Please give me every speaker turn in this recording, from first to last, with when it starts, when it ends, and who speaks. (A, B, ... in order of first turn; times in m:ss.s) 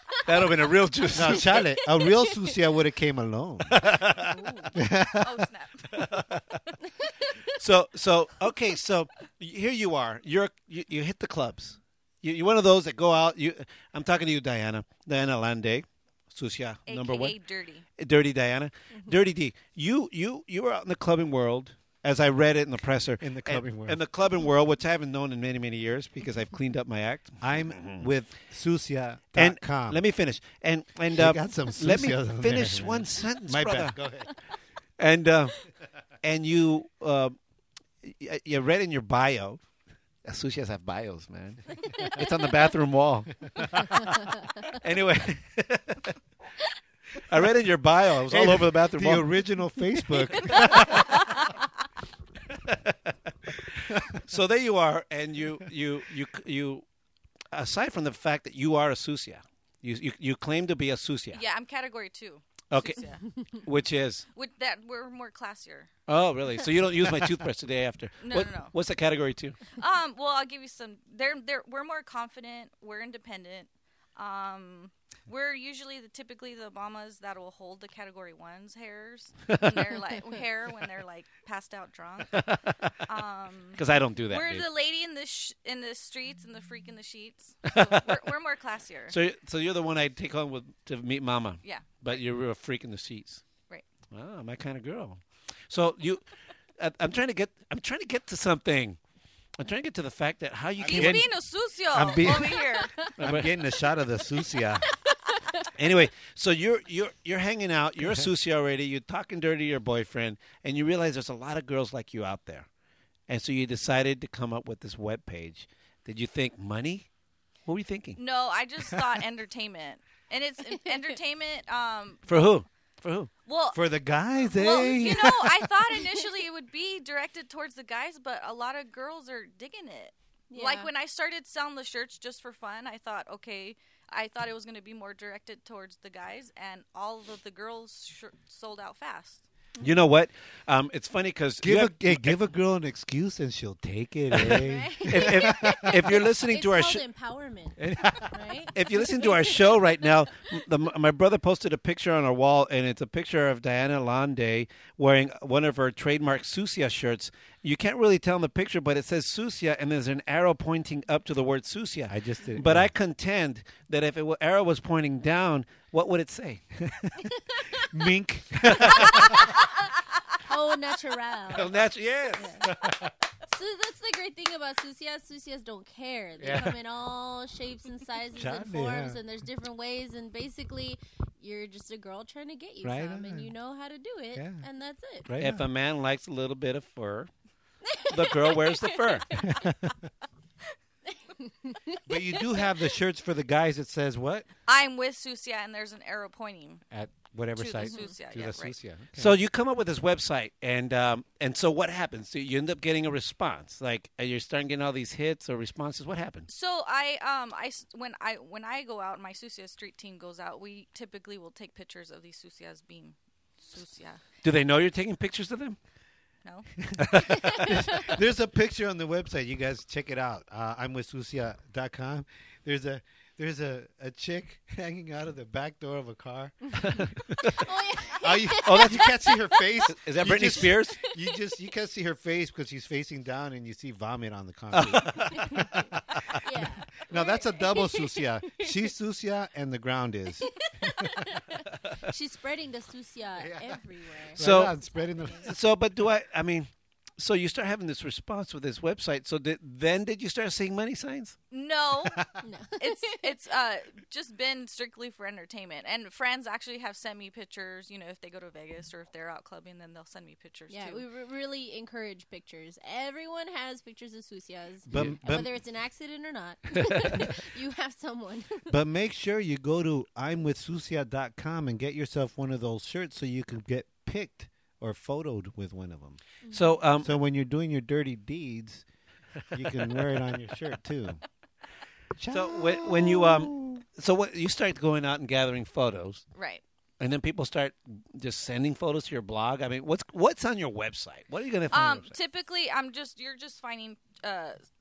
0:00.2-0:01.7 A
0:01.1-0:03.9 B
0:03.7-0:04.4 A
0:04.3-0:04.7 C
0:04.7-0:05.5 B
0:05.2-0:05.9 D
0:05.9-0:06.4 A
0:07.6-0:17.4 A
0:16.9-0:17.8 D
0:18.0-0:28.3 A
0:23.2-0:24.0 B
0:27.4-0:30.0 B
0:29.4-0:34.0 A
0:31.1-0:34.3 B
0:35.0-0:35.7 A
0:36.2-0:37.4 A
0:38.0-0:39.6 A
0:40.2-0:44.0 A
0:44.7-0:46.1 A
0:47.2-0:49.3 A
0:48.3-0:51.2 B
0:52.6-0:56.8 A
0:57.5-1:01.4 A
1:01.3-1:03.2 D
1:02.7-1:03.0 A
1:03.6-1:04.3 A
1:04.3-1:05.9 D
1:06.1-1:09.6 A
1:08.2-1:08.7 D
1:09.7-1:22.4 D
1:19.5-1:19.9 A
1:22.4-1:22.8 A
1:23.0-1:29.2 D
1:23.8-1:24.7 A
1:29.1-1:33.4 A
1:31.6-1:32.2 D
1:34.1-1:36.2 A
1:36.8-1:39.0 A
1:39.6-1:41.3 A
1:40.8-1:42.9 D
1:40.8-1:41.2 B
1:41.9-1:44.9 B
1:42.8-1:43.1 C
1:43.2-1:43.5 A
1:45.8-1:52.7 A
1:53.3-1:57.1 A
1:57.7-1:58.2 A
1:58.2-2:02.2 D
2:00.7-2:01.1 C
2:02.3-2:03.3 A
2:03.4-2:03.8 D
2:03.7-2:05.6 B
2:04.4-2:19.4 D
2:05.9-2:06.3 C
2:10.5-2:10.9 C
2:19.8-2:22.4 A
2:21.6-2:26.3 B
2:24.3-2:27.0 A
2:24.5-2:30.2 C
2:27.8-2:28.3 B
2:27.8-2:28.2 A
2:28.7-2:46.6 A
2:42.1-2:42.9 B
2:47.6-2:47.9 C
2:47.9-2:49.6 B
2:48.8-2:49.3 A
2:50.4-2:52.7 C
2:51.5-2:52.7 A
2:53.5-3:05.3 C
2:56.4-2:56.8 B
2:58.3-2:59.2 B
3:02.8-3:03.5 B
3:04.3-3:04.7 B
3:05.2-3:05.6 B
3:05.4-3:07.3 A
3:07.9-3:09.6 C
3:08.0-3:09.4 A
3:09.4-3:09.9 B
3:11.5-3:12.5 C
3:12.1-3:14.5 B
3:14.7-3:16.8 D
3:16.9-3:19.3 B
3:17.6-3:18.8 D
3:17.8-3:18.2 C
3:19.2-3:26.5 A
3:26.5-3:34.2 D
3:34.4-3:35.8 A
3:37.0-3:37.8 A
3:37.0-4:01.3 B
3:37.4-3:38.1 C
3:46.9-3:47.5 A
3:47.5-3:49.7 C
3:48.6-3:49.1 A
3:49.9-3:51.0 A
3:51.0-3:51.4 C
3:54.7-3:55.6 A
3:55.3-3:58.9 C
4:00.4-4:05.5 C
4:03.4-4:03.8 B
4:04.3-4:05.6 B
4:04.4-4:04.8 A
4:05.4-4:11.4 A
4:11.5-4:12.2 D
4:12.4-4:13.5 C
4:12.8-4:21.0 D
4:20.7-4:28.7 C
4:24.9-4:25.5 B
4:24.9-4:25.2 A
4:28.7-4:36.2 B
4:36.5-4:37.1 A
4:37.0-4:38.8 B
4:39.5-4:41.2 B
4:42.2-4:43.8 B
4:42.3-4:46.2 A
4:46.4-4:46.6 D
4:47.0-4:52.2 A
4:51.7-4:54.6 D